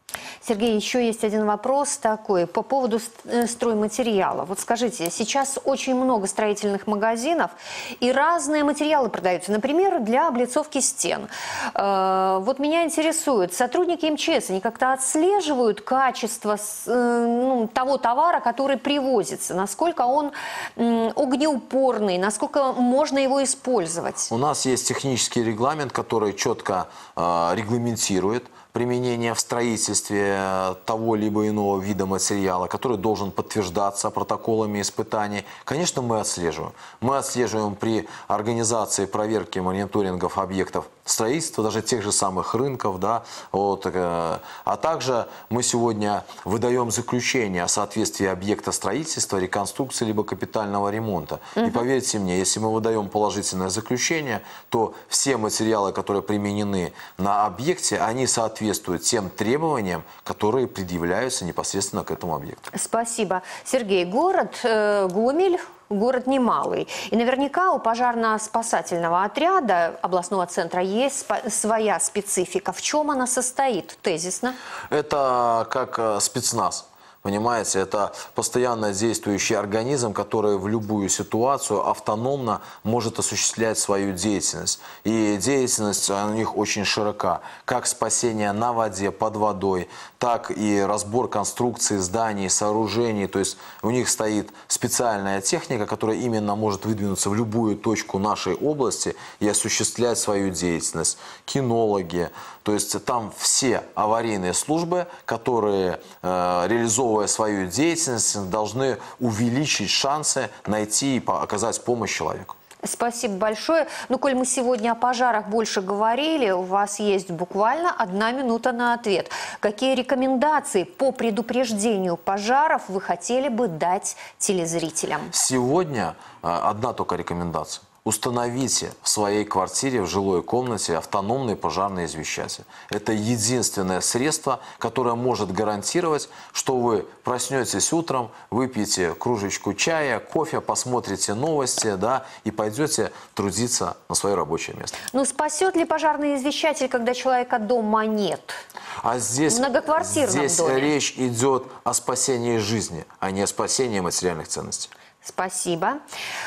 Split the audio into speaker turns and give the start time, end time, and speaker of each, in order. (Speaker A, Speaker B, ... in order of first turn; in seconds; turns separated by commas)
Speaker A: 0.4-24.3, Speaker B: 24.3-62.7, Speaker A: 51.6-51.8, Speaker A: 62.7-74.6, Speaker B: 74.9-112.6, Speaker A: 112.8-125.3, Speaker B: 125.3-145.0, Speaker A: 145.1-148.6, Speaker B: 149.0-154.9, Speaker A: 149.5-150.9, Speaker A: 155.2-156.0